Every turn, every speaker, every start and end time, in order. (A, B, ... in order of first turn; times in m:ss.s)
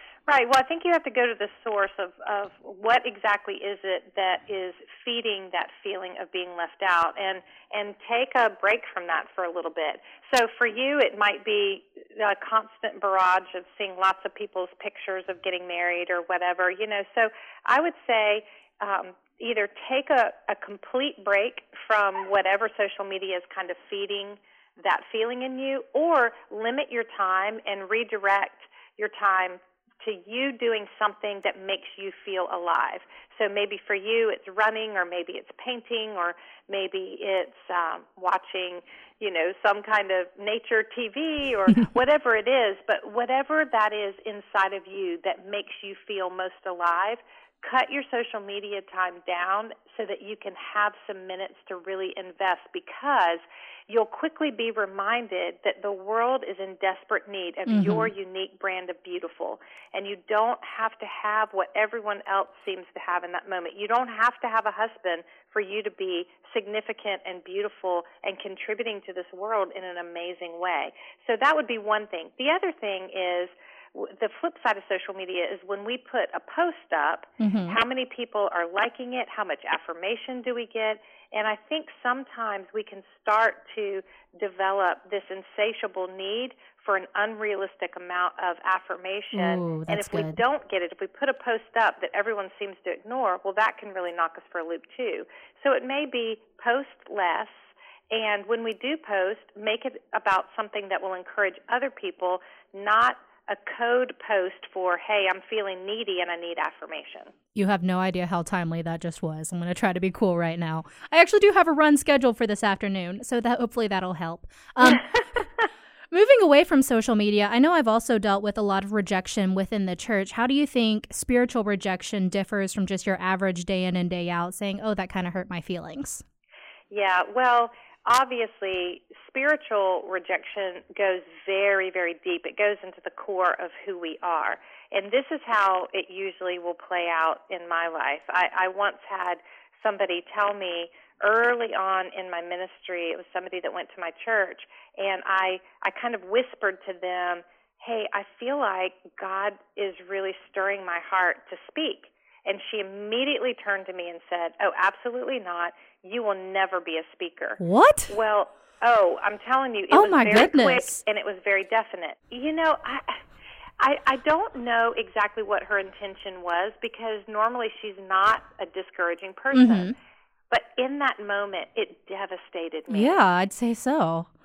0:00.3-1:47.3 A
0:57.7-0:58.1 B
1:17.4-1:17.8 B
1:29.3-1:30.4 B
1:47.5-1:55.4 B
1:56.1-2:06.2 B
2:06.9-2:43.1 A
2:37.6-2:38.1 B
2:39.9-2:41.0 B
2:43.8-2:49.9 A
2:49.5-2:49.9 B
2:50.5-2:53.2 A
2:52.9-2:54.3 B